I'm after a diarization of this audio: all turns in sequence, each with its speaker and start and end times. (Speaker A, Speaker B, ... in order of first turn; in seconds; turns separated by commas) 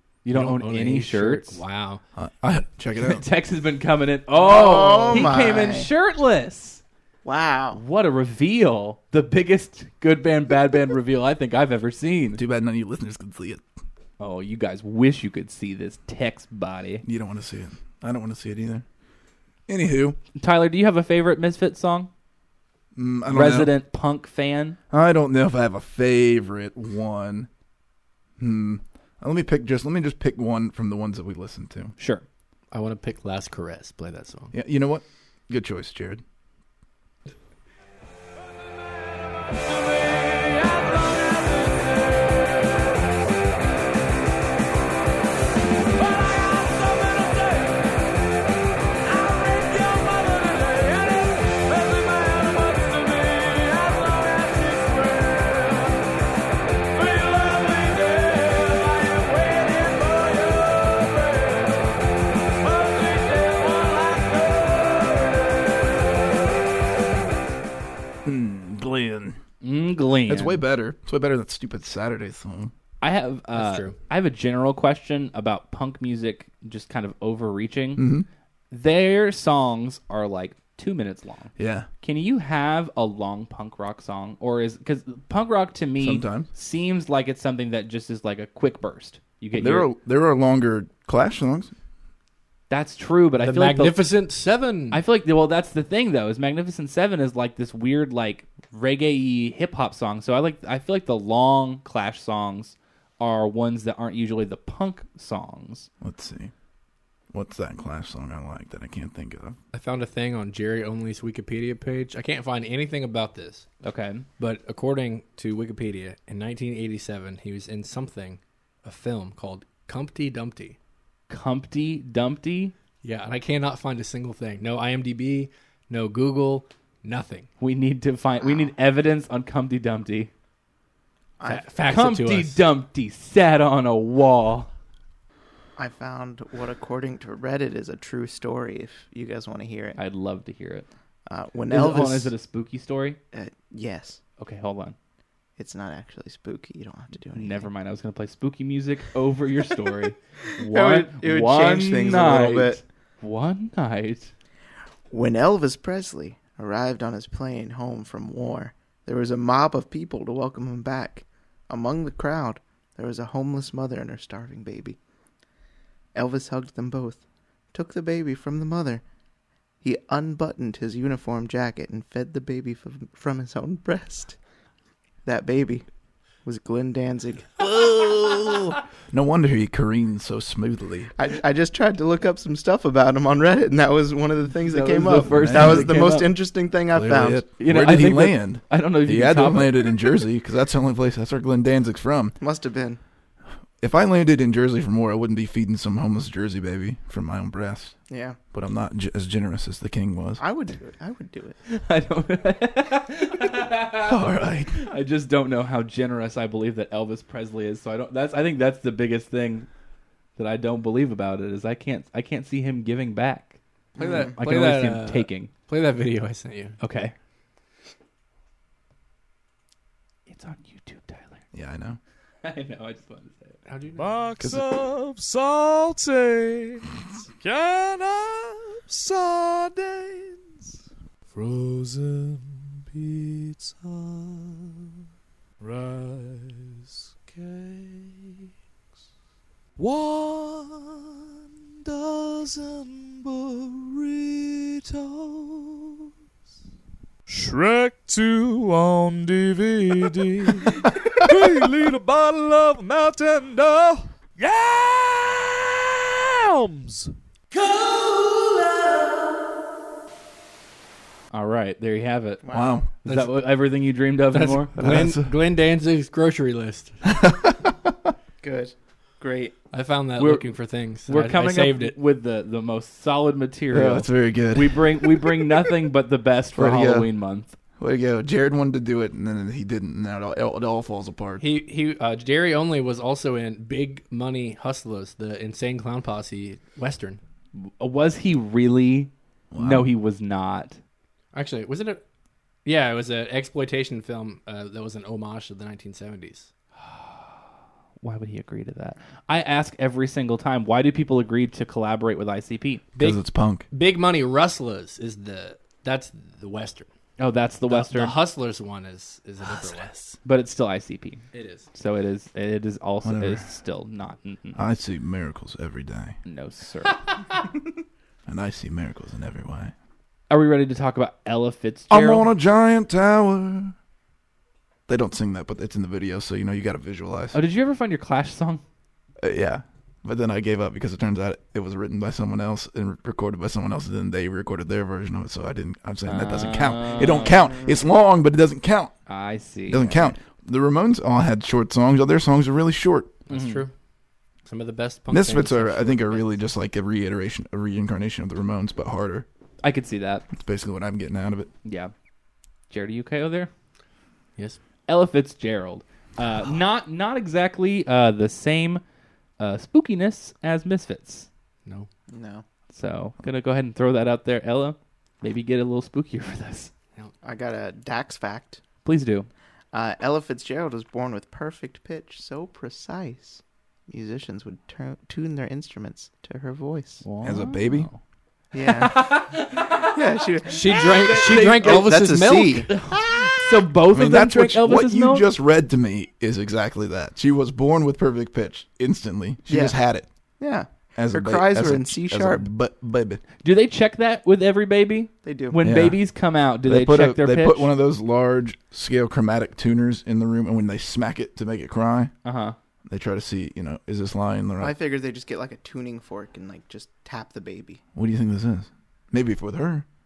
Speaker A: 0.2-1.6, Speaker B: 0.3-2.0, Speaker C: 2.1-3.2, Speaker A: 3.0-6.8, Speaker D: 4.3-5.9, Speaker D: 7.2-7.8, Speaker A: 7.7-12.4, Speaker C: 12.4-13.6, Speaker A: 14.2-17.1, Speaker C: 17.0-18.9, Speaker C: 19.7-20.2, Speaker A: 20.4-22.1, Speaker C: 22.9-23.7, Speaker A: 23.3-24.8, Speaker C: 24.9-27.5, Speaker C: 28.4-31.9, Speaker A: 32.0-32.2, Speaker B: 32.7-34.5, Speaker C: 34.5-36.2, Speaker E: 39.5-42.8, Speaker E: 46.0-47.9, Speaker E: 49.1-56.0, Speaker E: 56.9-62.0, Speaker E: 62.6-66.2, Speaker C: 68.2-69.4, Speaker A: 69.6-70.6, Speaker C: 70.3-72.7, Speaker A: 73.0-78.0, Speaker B: 73.5-74.0, Speaker C: 78.0-78.3, Speaker A: 78.7-89.9, Speaker C: 81.6-81.9, Speaker C: 86.0-86.5, Speaker C: 89.6-91.7, Speaker A: 92.7-94.1, Speaker B: 93.4-95.0, Speaker A: 94.9-105.9, Speaker C: 106.0-106.5, Speaker C: 107.3-109.6, Speaker B: 109.7-113.7, Speaker A: 113.8-114.3, Speaker B: 114.4-120.8, Speaker A: 121.3-122.7, Speaker B: 123.0-127.5, Speaker A: 127.6-130.3, Speaker D: 128.4-128.7, Speaker D: 131.4-131.7, Speaker B: 131.4-132.6, Speaker A: 131.9-134.7, Speaker D: 135.8-140.0, Speaker A: 140.0-140.9, Speaker D: 141.3-142.3, Speaker A: 141.7-143.2, Speaker D: 143.3-144.2, Speaker A: 144.4-145.0, Speaker D: 145.6-147.7, Speaker A: 147.3-154.3, Speaker D: 150.6-152.8, Speaker D: 155.1-165.0, Speaker D: 166.2-169.0, Speaker D: 169.8-174.4, Speaker D: 175.2-175.9, Speaker D: 176.4-177.6, Speaker C: 177.6-181.1, Speaker D: 181.2-187.4, Speaker A: 184.7-186.3, Speaker C: 185.2-185.9, Speaker C: 186.9-192.4, Speaker A: 187.6-190.1, Speaker D: 192.4-193.0, Speaker C: 193.8-197.9, Speaker D: 198.1-198.4, Speaker C: 198.5-200.4, Speaker D: 200.4-201.6, Speaker A: 201.7-209.7, Speaker C: 204.0-204.8, Speaker A: 210.4-215.5, Speaker D: 214.0-214.3, Speaker B: 214.0-216.8, Speaker A: 216.8-217.1, Speaker A: 220.3-221.4, Speaker C: 221.5-222.0, Speaker A: 222.4-223.6, Speaker B: 223.7-224.2, Speaker E: 224.0-230.7, Speaker C: 224.4-224.7, Speaker E: 231.3-234.9, Speaker E: 235.6-238.5, Speaker E: 239.8-241.3, Speaker E: 241.8-246.1, Speaker E: 247.3-257.1, Speaker A: 261.3-262.4, Speaker D: 262.4-262.8, Speaker C: 262.5-262.9, Speaker A: 263.0-264.7, Speaker B: 263.1-263.4, Speaker B: 264.3-267.0, Speaker C: 264.8-265.3, Speaker C: 267.1-267.9, Speaker D: 268.4-269.6, Speaker B: 269.7-271.9, Speaker A: 270.2-277.6, Speaker C: 273.7-275.5, Speaker C: 276.6-277.1, Speaker C: 277.8-281.4, Speaker B: 281.4-287.2, Speaker A: 287.6-290.8, Speaker C: 289.5-289.9, Speaker B: 291.3-292.0, Speaker B: 292.6-296.5, Speaker A: 296.8-297.4, Speaker A: 298.0-302.9, Speaker B: 303.0-306.9, Speaker C: 303.0-303.7, Speaker A: 307.2-308.2, Speaker B: 307.7-310.2, Speaker A: 310.2-314.6, Speaker B: 311.3-311.7, Speaker C: 313.0-313.5, Speaker C: 314.6-316.2, Speaker A: 316.3-317.3, Speaker C: 318.3-319.7, Speaker A: 320.3-322.3, Speaker C: 321.9-323.8, Speaker C: 324.9-327.4, Speaker A: 327.3-328.6, Speaker C: 329.2-339.0, Speaker A: 336.1-337.4, Speaker D: 337.0-337.9, Speaker A: 339.1-340.1, Speaker C: 339.7-343.2, Speaker B: 343.3-343.7, Speaker A: 343.3-343.7, Speaker B: 344.5-346.3, Speaker C: 345.1-349.3, Speaker A: 349.6-350.3, Speaker C: 350.3-351.5, Speaker A: 351.6-351.9, Speaker A: 352.7-353.5, Speaker A: 354.9-358.8, Speaker A: 359.4-361.3, Speaker D: 362.1-362.4, Speaker A: 362.7-366.7, Speaker D: 367.2-368.6, Speaker A: 368.9-369.3, Speaker D: 369.7-377.1, Speaker A: 377.0-378.0, Speaker C: 377.2-377.9, Speaker D: 378.5-382.8, Speaker A: 378.6-380.0, Speaker B: 380.5-382.7, Speaker A: 380.8-381.9, Speaker A: 382.7-385.3, Speaker C: 383.9-390.1, Speaker D: 389.5-389.8, Speaker D: 390.4-392.5, Speaker C: 390.9-393.2, Speaker A: 393.4-397.7, Speaker D: 395.2-395.6, Speaker C: 395.6-396.0, Speaker C: 396.6-402.1, Speaker A: 402.2-402.6, Speaker C: 402.9-404.7, Speaker D: 404.6-407.8, Speaker C: 407.9-409.9